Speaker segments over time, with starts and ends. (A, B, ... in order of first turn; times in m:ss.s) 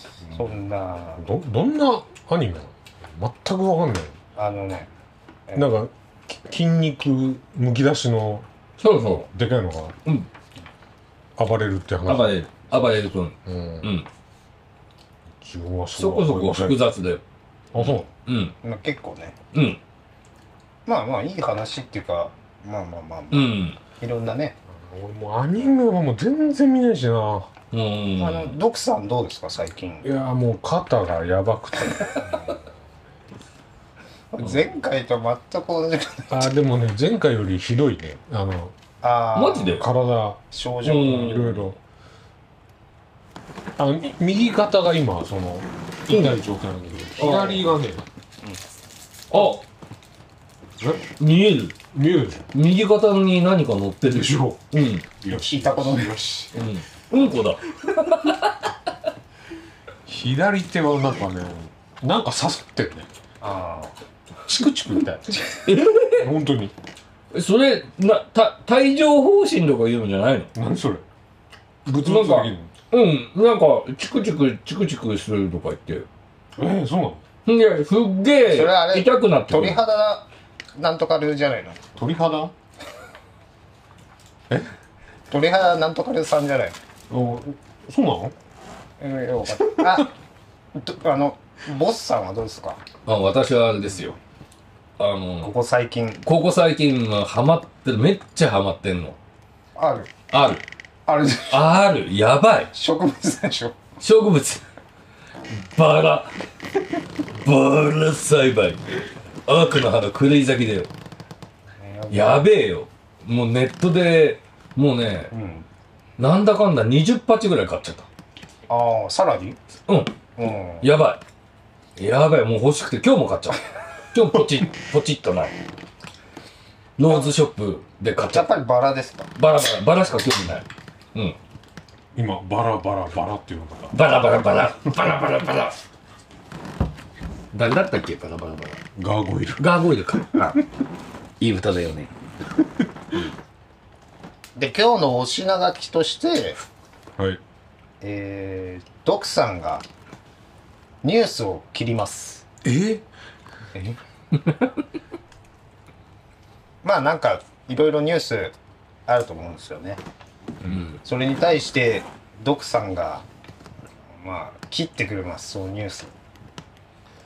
0:00.3-0:01.3 A
0:01.2-0:04.2 B
0:04.4-0:04.9 A
0:05.6-0:08.5 B
0:08.8-0:09.3 C
0:09.0-0:10.0 B
0:11.4-0:12.9 B
0:12.1-0:14.1 C
0:13.4-0:13.9 B
0:15.4-0:16.8 B
0:16.0-0:17.2 C
0:17.7-0:18.0 B
0:17.8-0:18.6 C
0:18.6-0:19.4 A
0:19.5-0:19.8 C
0:20.9-0:24.6 A
0:23.3-0:23.8 C
0:24.7-0:27.5 B
0:27.7-0:28.6 C
0:28.2-0:30.1 A
0:30.0-0:32.3 B
0:34.3-0:36.5 A
0:36.3-0:38.8 B
0:39.0-0:39.8 A
0:39.4-0:39.9 C
0:39.7-0:40.4 B
0:40.5-0:41.5 A
0:40.8-0:41.6 C
0:41.1-0:41.8 B
0:43.8-0:48.0 B
0:46.1-0:46.4 C
0:47.2-0:47.7 C
0:49.3-0:49.6 C
0:50.8-0:51.1 B
0:51.2-0:51.8 C
0:51.9-0:52.5 B
0:52.5-0:55.1 C
0:54.1-0:54.7 B
0:55.2-0:56.6 B
0:55.3-0:56.2 A
0:56.5-0:58.7 C
1:00.1-1:03.1 B
1:03.4-1:03.9 A
1:04.5-1:05.5 B
1:05.6-1:06.3 C
1:06.0-1:06.7 B
1:07.3-1:10.5 C
1:10.6-1:11.0 B
1:11.8-1:12.7 B
1:12.0-1:16.1 C
1:16.6-1:17.2 B
1:17.5-1:19.8 C
1:18.5-1:21.8 A
1:22.0-1:22.5 B
1:25.3-1:26.8 A
1:27.1-1:28.4 B
1:29.0-1:30.1 A
1:29.6-1:30.1 B
1:30.8-1:32.8 A
1:33.1-1:34.2 C
1:35.0-1:35.5 C
1:35.4-1:36.2 A
1:36.2-1:39.2 C
1:39.8-1:40.1 A
1:40.3-1:40.6 C
1:41.1-1:41.7 A
1:41.5-1:42.7 C
1:42.7-1:43.8 A
1:44.0-1:44.6 C
1:45.5-1:46.3 C
1:47.3-1:48.8 C
1:49.5-1:50.9 C
1:51.8-1:52.5 A
1:52.1-1:55.3 C
1:55.3-1:55.7 A
1:56.2-1:58.1 C
1:58.7-1:59.6 A
1:59.9-2:00.3 C
2:00.4-2:00.9 A
2:00.8-2:01.2 C
2:02.0-2:03.6 C
2:04.1-2:05.6 C
2:07.0-2:08.5 C
2:08.3-2:09.3 A
2:09.4-2:11.4 C
2:12.2-2:14.0 B
2:13.9-2:15.8 C
2:17.5-2:18.8 C
2:19.0-2:19.6 B
2:19.6-2:20.6 C
2:21.4-2:22.1 C
2:24.6-2:26.6 A
2:28.0-2:29.9 A
2:31.0-2:32.4 A
2:32.6-2:33.0 B
2:33.7-2:34.0 A
2:36.8-2:38.6 A
2:39.1-2:40.0 A
2:40.7-2:41.0 C
2:41.0-2:43.2 A
2:44.2-2:46.1 A